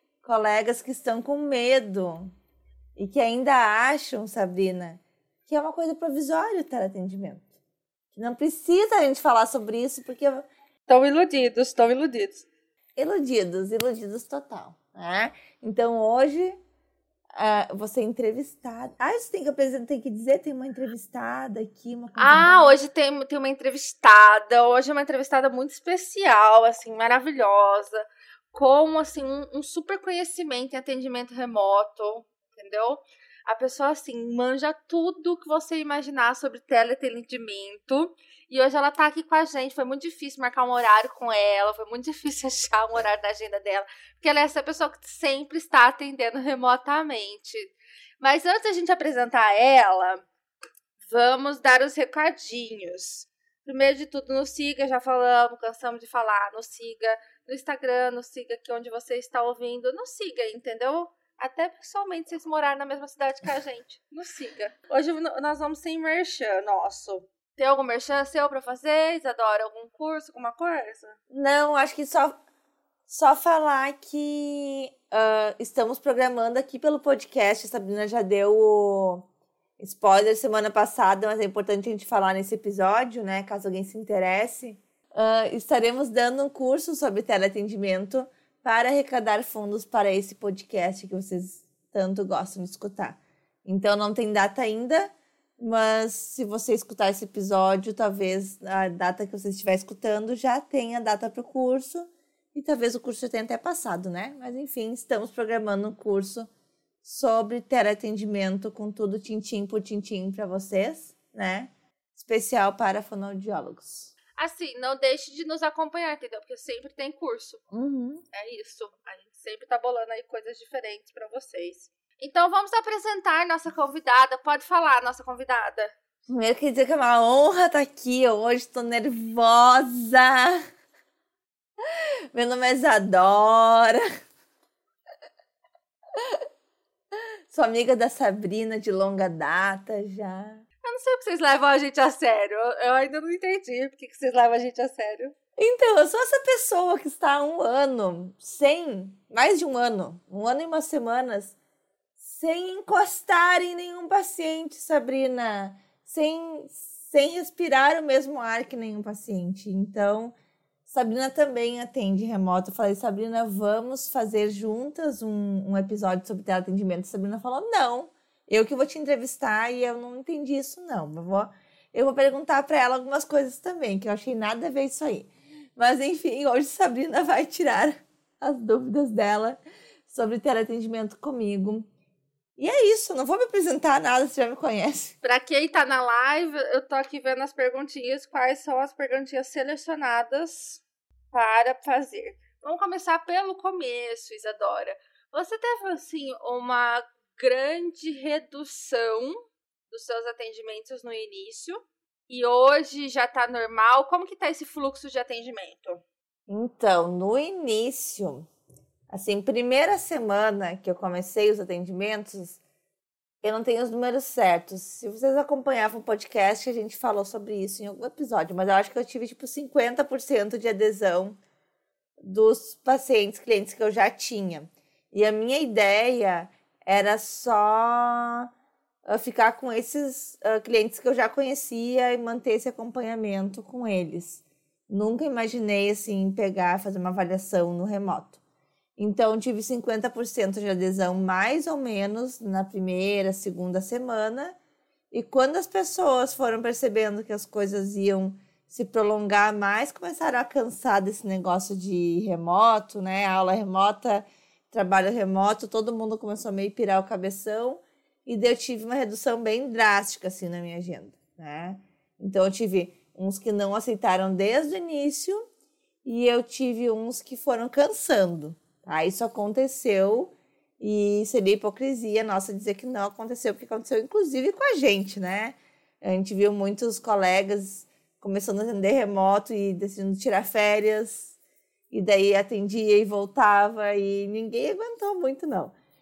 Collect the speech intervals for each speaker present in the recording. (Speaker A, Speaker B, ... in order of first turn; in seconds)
Speaker A: 0.2-2.3, 3.0-7.5, 8.1-10.4, 13.0-16.6, 17.4-22.8, 71.3-72.3, 73.1-79.3, 79.8-106.5, 107.0-114.1, 117.7-118.2, 126.3-130.6, 131.9-134.0, 136.1-136.4, 137.5-140.6, 145.6-151.6, 152.2-160.3, 160.8-181.9, 182.6-185.1, 206.5-208.5, 209.1-212.6, 213.4-221.4, 222.2-228.5, 229.1-238.4, 239.0-244.6, 245.1-265.4, 266.0-281.3, 281.9-285.7
Speaker B: 10.9-12.5, 22.2-50.2, 51.0-71.2, 114.4-117.6, 118.3-125.9, 140.8-145.3, 185.2-206.0